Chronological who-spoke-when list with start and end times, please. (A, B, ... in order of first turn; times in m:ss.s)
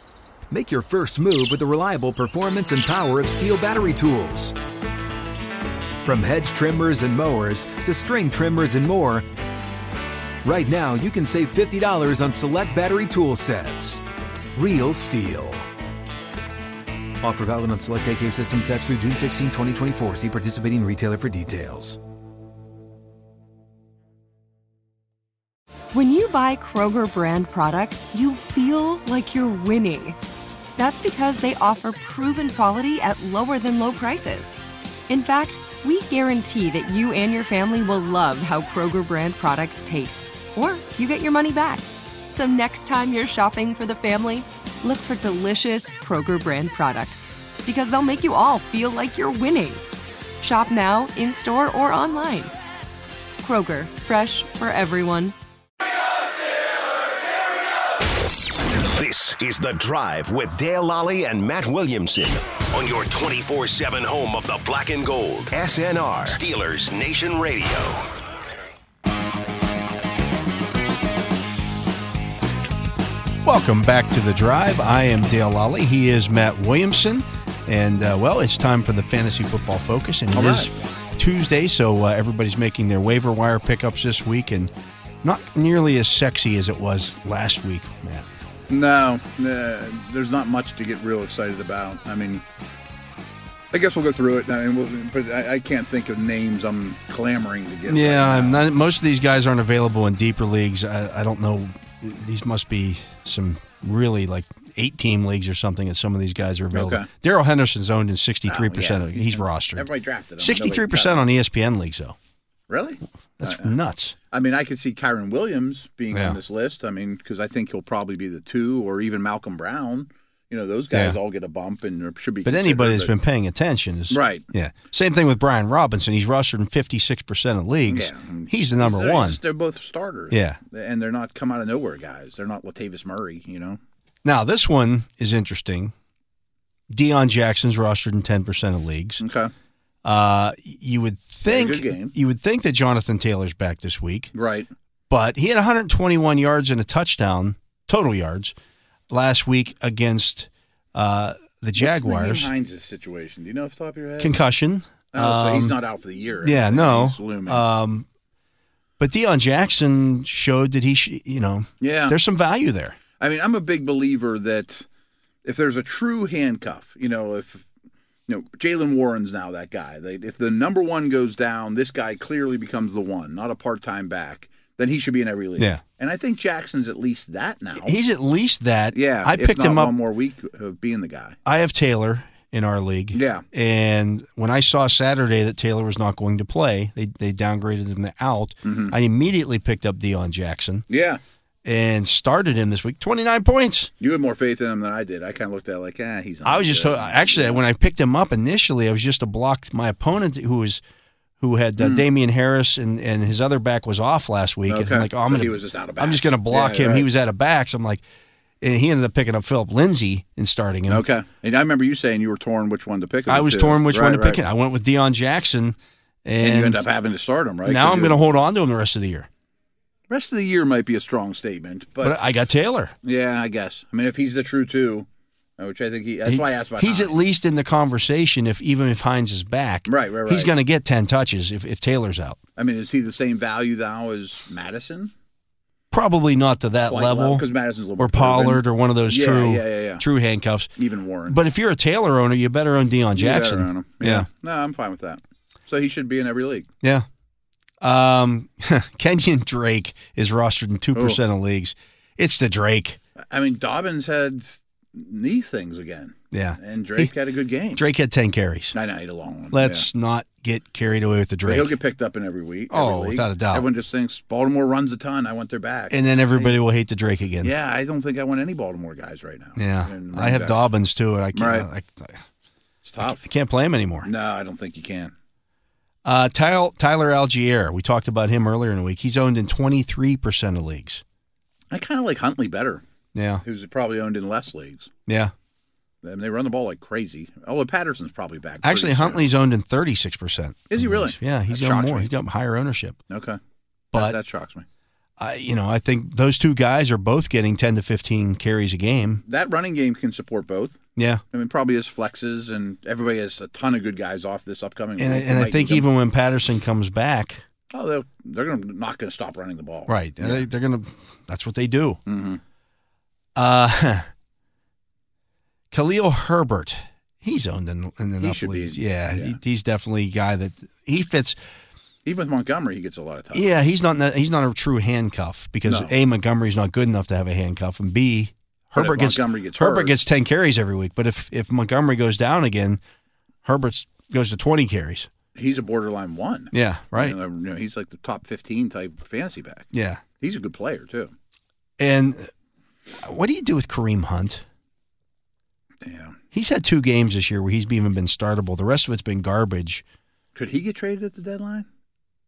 0:00.5-0:04.5 A
0:06.0-0:09.2 A
0:10.4-0:14.0 A
0:14.6-0:15.6 A
0:17.2-0:22.0 A
0:25.9-0:30.2 B
0:30.8-0:34.5 B
0:35.1-0:49.8 B
0:50.4-0:52.5 B
0:53.4-0:55.3 B
0:58.8-1:08.1 C
1:13.4-1:24.7 D
1:20.3-1:20.7 E
1:25.2-1:28.3 D
1:28.7-1:32.4 E
1:33.7-1:38.7 E
1:37.8-1:49.9 D
1:46.7-1:47.1 E
1:48.5-1:51.3 E
1:50.4-1:52.2 D
1:52.7-1:53.7 E
1:53.4-1:54.2 D
1:54.3-2:03.1 E
1:56.1-1:56.4 D
2:00.9-2:01.2 D
2:02.4-2:09.4 D
2:04.1-2:04.4 E
2:07.8-2:13.8 E
2:10.3-2:10.6 D
2:14.2-2:15.9 D
2:16.9-2:19.2 D
2:19.2-2:19.5 E
2:20.0-2:24.3 D
2:21.4-2:22.1 E
2:24.3-2:24.7 E
2:25.1-2:28.5 D
2:29.1-2:32.5 D
2:31.8-2:34.4 E
2:34.2-2:35.8 D
2:35.1-2:37.6 E
2:36.4-2:38.0 D
2:39.0-2:43.0 D
2:41.8-2:42.2 E
2:43.2-2:44.9 E
2:45.4-2:47.7 E
2:48.3-2:58.0 E
2:57.8-2:59.9 D
2:58.9-3:01.4 E
3:01.4-3:10.8 D
3:03.1-3:03.4 E
3:08.6-3:08.9 E
3:10.9-3:11.2 E
3:11.6-3:13.9 D
3:14.0-3:17.6 E
3:16.4-3:20.8 D
3:21.4-3:28.0 D
3:21.8-3:22.0 E
3:24.7-3:27.1 E
3:28.6-3:31.0 D
3:30.9-3:34.4 E
3:33.3-3:36.8 D
3:36.4-3:38.2 E
3:37.6-3:39.3 D
3:40.1-3:42.3 E
3:42.0-3:42.9 D
3:43.0-3:45.1 E
3:45.6-3:47.3 E
3:46.2-3:52.4 D
3:49.9-3:50.5 E
3:52.6-3:55.1 E
3:55.9-3:57.4 D
3:56.9-4:00.0 E
3:58.0-4:00.7 D
4:00.8-4:01.4 E
4:01.3-4:04.3 D
4:03.2-4:06.7 E
4:07.8-4:13.0 D
4:10.9-4:11.2 E
4:13.3-4:17.8 E
4:16.3-4:17.1 D
4:17.7-4:18.8 D
4:18.7-4:19.9 E
4:19.5-4:21.8 D
4:21.4-4:26.6 E
4:22.7-4:23.7 D
4:25.9-4:27.5 D
4:27.4-4:30.6 E
4:29.6-4:32.2 D
4:31.3-4:31.7 E
4:32.8-4:33.2 E
4:33.0-4:34.1 D
4:34.0-4:35.1 E
4:36.0-4:41.0 D
4:41.7-4:42.8 E
4:43.1-4:43.4 D
4:43.4-4:44.9 E
4:45.1-4:45.3 D
4:46.0-4:49.3 E
4:48.6-4:53.0 D
4:50.7-4:52.1 E
4:53.1-4:53.4 E
4:53.9-4:54.6 E
4:55.2-4:59.2 D
4:59.2-5:00.8 E
5:01.0-5:01.2 D
5:01.3-5:05.9 E
5:05.0-5:07.4 D
5:07.7-5:10.4 E
5:09.9-5:12.0 D
5:12.0-5:12.4 E
5:13.4-5:14.1 D
5:15.7-5:21.4 D
5:18.2-5:19.4 E
5:22.0-5:23.5 E
5:23.3-5:32.8 D
5:25.6-5:25.9 E
5:28.7-5:30.0 E
5:33.4-5:35.1 D
5:35.3-5:41.1 E
5:36.5-5:37.2 D
5:39.7-5:40.0 D
5:41.8-5:42.3 D
5:42.9-5:44.4 D
5:45.8-5:46.2 E
5:46.3-5:49.8 D
5:50.3-5:51.7 E